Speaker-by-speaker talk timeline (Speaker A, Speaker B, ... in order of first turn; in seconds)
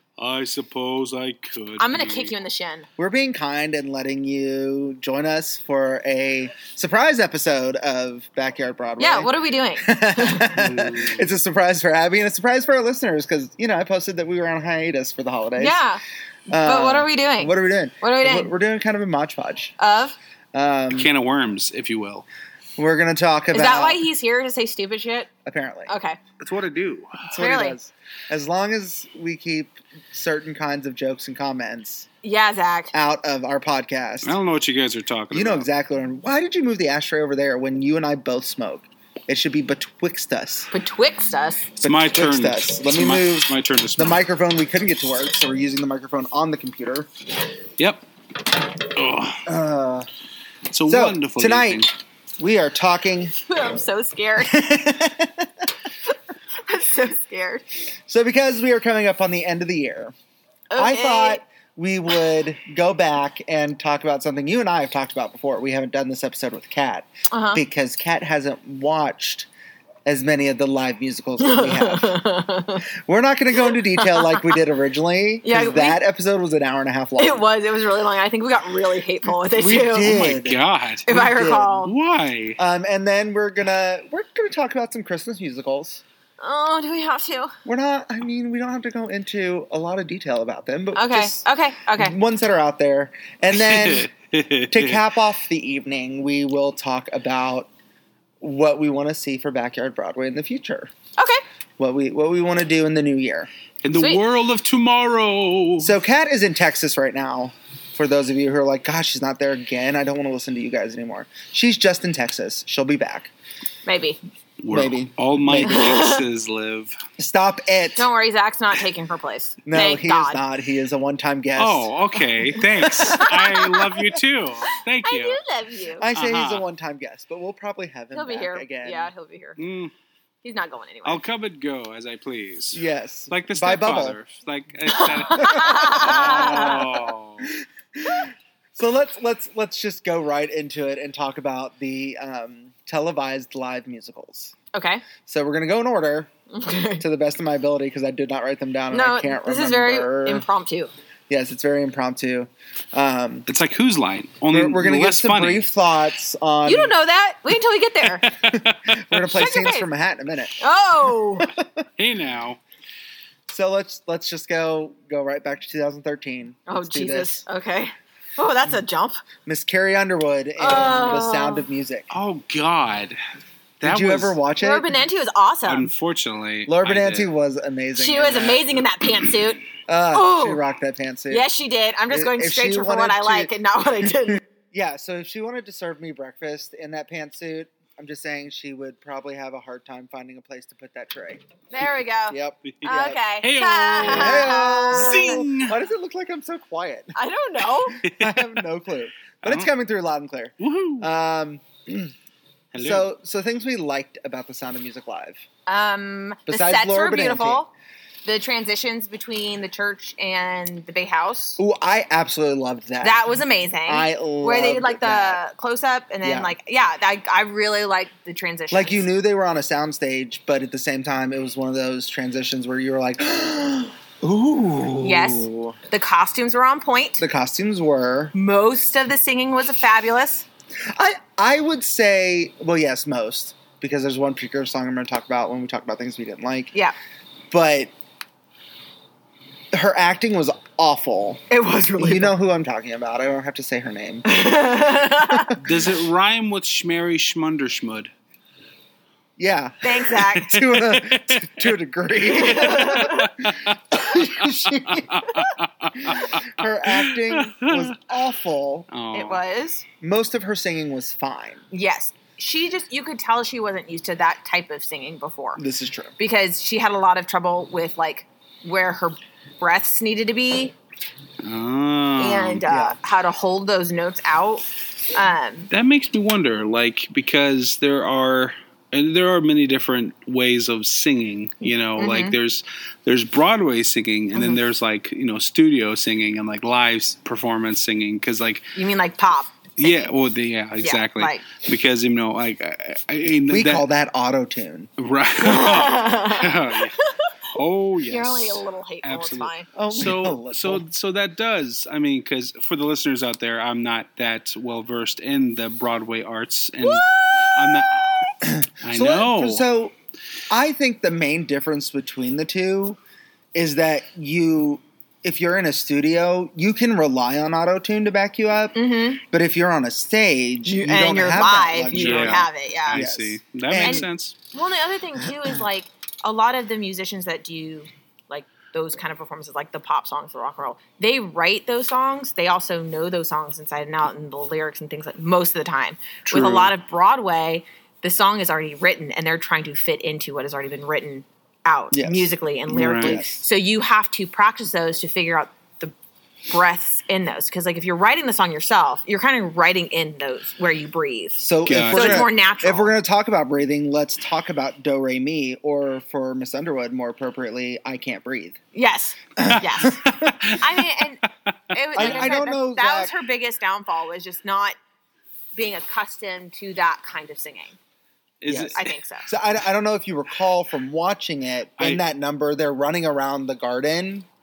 Speaker A: 0.2-2.3, 10.6-11.2, 20.9-22.2, 34.2-35.7, 41.8-44.2, 47.8-48.0, 48.8-49.4, 50.7-51.9, 80.0-82.6, 93.5-95.0, 103.8-106.0, 114.6-117.0, 121.6-125.4, 126.1-126.6, 129.6-129.9, 131.0-137.5, 153.5-155.7, 158.2-158.8, 162.0-162.6, 172.1-173.2, 173.8-174.4, 175.6-177.3, 192.6-195.8, 198.0-198.6, 199.4-199.7, 200.6-201.1, 202.7-203.1, 245.6-248.1, 250.5-251.7, 252.4-257.9, 258.9-259.4, 271.4-272.6, 275.7-288.7, 289.8-293.8, 295.0-297.0, 297.5-309.6, 321.9-324.4, 336.3-336.7, 342.7-343.2, 351.6-352.3, 359.4-360.9, 361.9-362.3, 368.4-368.8
Speaker B: 1.8-2.9, 9.0-10.6, 15.6-16.0, 16.6-18.5, 19.8-20.1, 23.5-25.3, 25.9-26.2, 27.4-27.8, 32.2-32.9, 40.7-41.7, 53.5-54.6, 56.6-57.6, 60.7-61.4, 67.3-67.6, 71.4-72.8, 73.6-74.5, 75.4-76.0, 77.2-80.2, 81.1-81.9, 86.4-87.5, 90.9-92.2, 103.9-104.2, 113.8-114.2, 115.5-116.2, 118.0-120.4, 122.5-124.0, 125.0-126.0, 128.1-129.6, 130.4-131.2, 134.9-136.9, 144.7-145.1, 146.5-147.0, 148.9-150.9, 156.6-158.3, 159.3-159.9, 160.6-161.5, 166.7-169.2, 170.6-171.7, 174.6-175.9, 178.0-180.6, 181.3-184.4, 191.7-195.4, 197.1-198.0, 205.7-207.7, 208.2-211.6, 213.0-219.1, 225.0-227.2, 228.3-230.4, 241.5-242.3, 244.2-245.6, 249.8-250.6, 252.2-253.3, 259.1-259.8, 261.7-265.6, 266.2-270.7, 272.2-275.7, 282.0-282.3, 284.3-284.6, 288.7-290.1, 290.8-291.5, 295.4-297.3, 298.0-299.7, 306.8-308.3, 318.7-319.2, 320.6-323.0, 323.8-345.9, 346.5-352.9, 358.7-364.8, 365.5-367.8, 368.7-369.3
Speaker C: 3.0-15.8, 16.5-19.7, 20.5-21.1, 22.8-24.0, 25.4-32.0, 32.9-34.4, 35.3-40.7, 41.8-47.1, 49.5-50.1, 50.9-51.9, 52.4-53.3, 54.4-55.7, 58.1-60.1, 60.8-69.5, 70.0-72.2, 72.9-77.4, 79.5-80.6, 81.1-81.8, 82.6-86.0, 87.6-91.4, 91.9-94.1, 94.7-97.7, 98.4-100.9, 101.8-103.5, 105.8-113.3, 114.7-115.8, 117.2-118.1, 119.6-121.9, 126.0-129.1, 132.7-134.2, 135.3-136.8, 137.4-144.5, 145.2-146.3, 147.0-150.4, 151.3-153.5, 154.5-156.9, 158.5-160.6, 161.4-161.8, 163.5-167.4, 169.4-172.1, 173.8-174.8, 176.7-178.7, 179.9-181.4, 182.1-184.1, 184.7-191.4, 192.3-193.2, 194.0-197.1, 198.0-202.1, 202.8-205.4, 206.5-207.6, 211.6-213.3, 213.8-215.4, 216.2-216.5, 218.7-225.8, 227.2-228.3, 230.9-236.7, 237.5-237.9, 239.7-241.4, 242.0-244.2, 245.3-245.8, 249.4-255.2, 256.0-258.9, 260.0-261.6, 265.6-266.1, 272.6-272.9, 293.5-294.9, 299.7-300.8, 308.4-309.9, 310.5-313.0, 313.5-324.1, 341.9-343.4, 351.4-358.6, 359.4-360.3, 361.9-363.1, 368.5-374.3